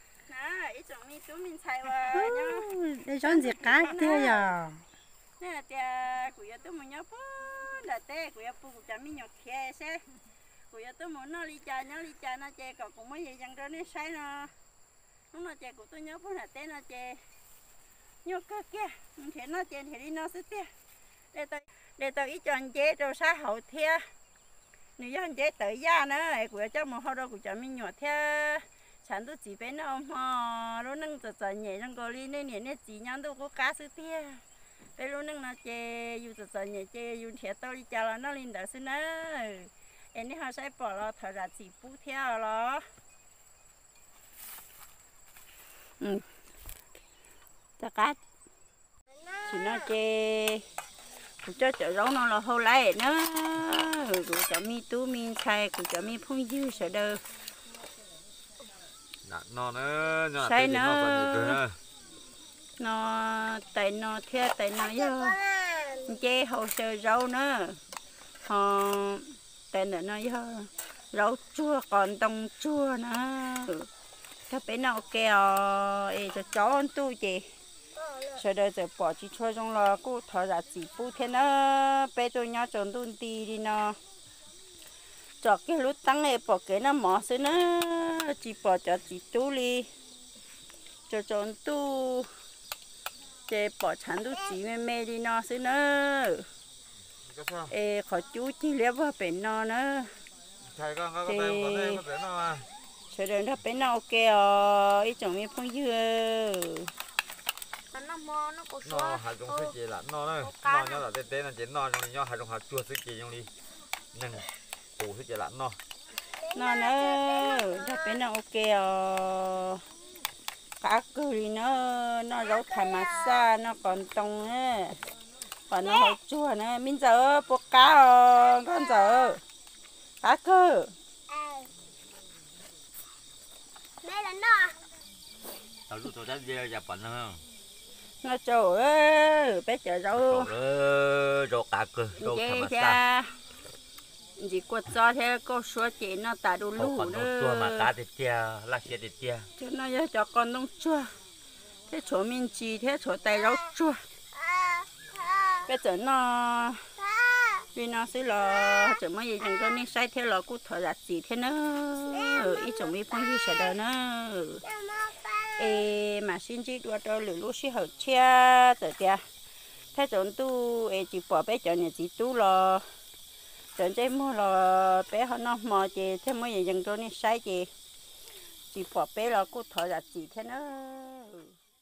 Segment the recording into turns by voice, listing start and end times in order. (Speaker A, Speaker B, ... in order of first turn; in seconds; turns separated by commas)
Speaker A: 0.2-2.7, Speaker B: 2.1-4.8, Speaker A: 3.2-4.6, Speaker A: 5.4-10.0, Speaker A: 10.7-14.5, Speaker A: 15.3-17.2, Speaker A: 18.2-20.7, Speaker A: 21.3-24.0, Speaker A: 25.0-34.4, Speaker A: 35.0-42.8, Speaker A: 46.0-46.2, Speaker A: 47.8-48.2, Speaker A: 49.4-50.6, Speaker A: 51.4-57.2, Speaker C: 59.2-61.8, Speaker A: 60.4-61.6, Speaker A: 62.8-67.8, Speaker D: 65.6-65.9, Speaker A: 68.5-73.9, Speaker A: 74.5-77.5, Speaker A: 78.2-84.0, Speaker A: 85.4-89.9, Speaker A: 91.1-92.3, Speaker A: 93.5-96.5, Speaker C: 97.3-97.7, Speaker A: 97.7-100.1, Speaker C: 100.7-102.7, Speaker A: 101.2-102.0, Speaker A: 103.1-106.9, Speaker D: 107.9-108.9, Speaker C: 108.8-113.5, Speaker C: 114.1-114.5, Speaker C: 115.0-115.8, Speaker D: 116.4-118.0, Speaker A: 116.5-119.8, Speaker A: 120.8-125.0, Speaker D: 122.6-123.1, Speaker A: 125.7-129.4, Speaker A: 130.2-130.9, Speaker D: 131.3-131.7, Speaker D: 134.0-134.8, Speaker C: 135.9-137.4, Speaker A: 138.2-140.5, Speaker C: 140.3-142.9, Speaker A: 142.2-143.3, Speaker A: 144.4-147.9, Speaker C: 146.9-149.4, Speaker A: 149.6-151.1, Speaker A: 151.9-154.0, Speaker D: 154.4-155.7, Speaker A: 155.6-156.9, Speaker D: 157.1-157.6, Speaker A: 157.7-164.6, Speaker D: 162.2-162.9, Speaker D: 164.6-165.8, Speaker A: 165.6-169.2, Speaker A: 169.9-172.8, Speaker A: 173.8-177.7, Speaker A: 178.7-181.5